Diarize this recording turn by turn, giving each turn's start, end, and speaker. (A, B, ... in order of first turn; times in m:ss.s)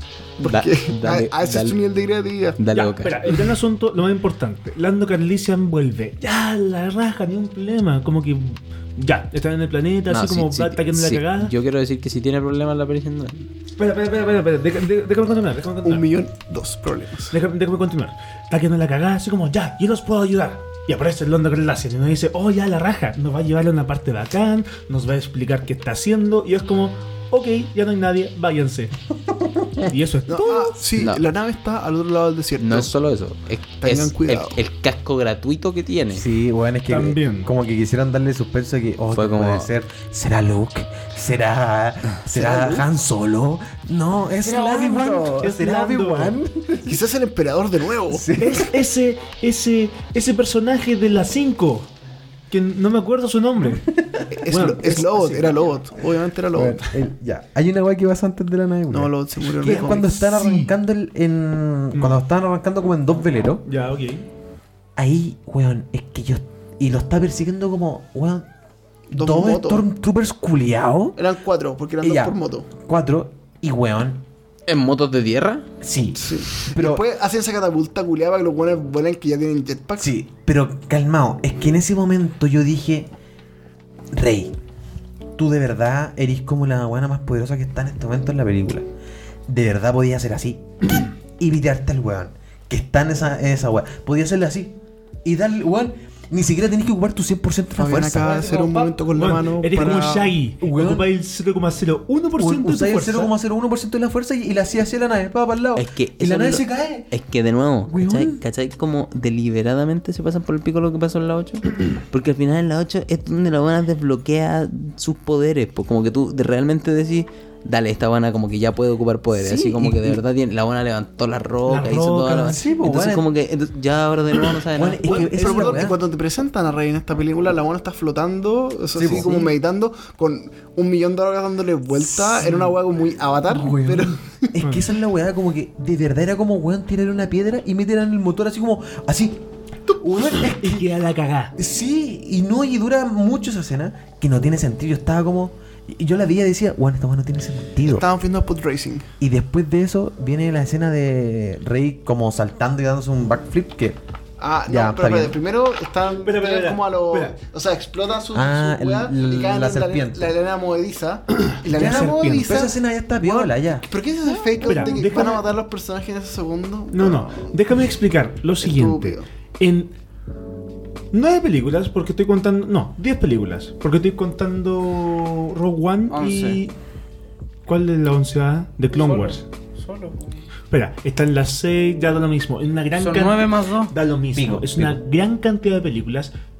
0:00.4-0:02.6 A
0:00.4-0:01.8 B
0:02.6-0:03.3 B
0:02.7-0:11.5 C
0:10.1-0:13.4 B
0:13.8-0:16.1 C
0:15.8-0:17.3 A
0:17.3-0:28.9 C
0:29.8-0:30.8 C
0:30.3-0:32.9 A
0:31.0-0:31.2 B
0:32.6-0:36.2 B
0:33.8-0:34.6 A
0:36.1-0:47.0 D
0:36.9-0:37.5 C
0:39.1-0:39.7 B
0:42.3-0:42.9 A
0:44.4-0:46.4 C
0:46.8-0:48.3 A
0:48.1-0:48.7 D
0:48.4-0:51.9 C
0:52.5-0:53.9 C
0:53.6-0:54.3 D
0:54.4-0:56.9 A
0:54.4-0:55.5 C
0:56.5-1:03.6 D
0:58.9-1:00.3 A
0:59.6-1:00.7 C
1:01.9-1:02.2 C
1:03.6-1:04.3 C
1:05.0-1:08.5 D
1:09.1-1:09.8 A
1:09.1-1:11.2 D
1:11.2-1:12.7 A
1:12.0-1:14.2 D
1:14.7-1:15.6 B
1:15.8-1:17.0 D
1:16.2-1:20.1 A
1:20.0-1:23.1 D
1:24.1-1:24.5 D
1:25.4-1:28.9 D
1:29.5-1:38.6 D
1:37.7-1:40.3 A
1:38.2-1:39.0 E
1:39.1-1:43.3 C
1:40.6-1:41.1 D
1:42.4-1:47.1 D
1:45.8-2:05.3 B
1:47.9-1:48.4 D
1:59.3-2:00.2 D
2:01.6-2:02.6 C
2:02.5-2:03.3 D
2:04.7-2:06.0 D
2:05.1-2:14.5 A
2:08.9-2:09.4 D
2:09.1-2:09.3 B
2:12.0-2:12.7 D
2:13.5-2:19.4 D
2:19.9-2:20.2 A
2:20.0-2:20.8 D
2:20.3-2:21.5 C
2:21.6-2:28.0 D
2:27.9-2:29.0 A
2:29.2-2:34.0 D
2:34.4-2:47.5 A
2:34.6-2:35.4 D
2:36.2-2:37.4 C
2:38.3-2:40.3 D
2:41.5-2:42.5 C
2:41.7-2:43.9 D
2:44.6-2:45.4 C
2:46.9-2:49.9 C
2:48.6-2:49.2 A
2:51.1-2:56.7 C
2:56.1-2:56.6 E
2:57.6-2:59.4 C
2:58.9-3:00.3 E
3:00.7-3:06.3 C
3:03.0-3:03.9 E
3:04.3-3:05.0 D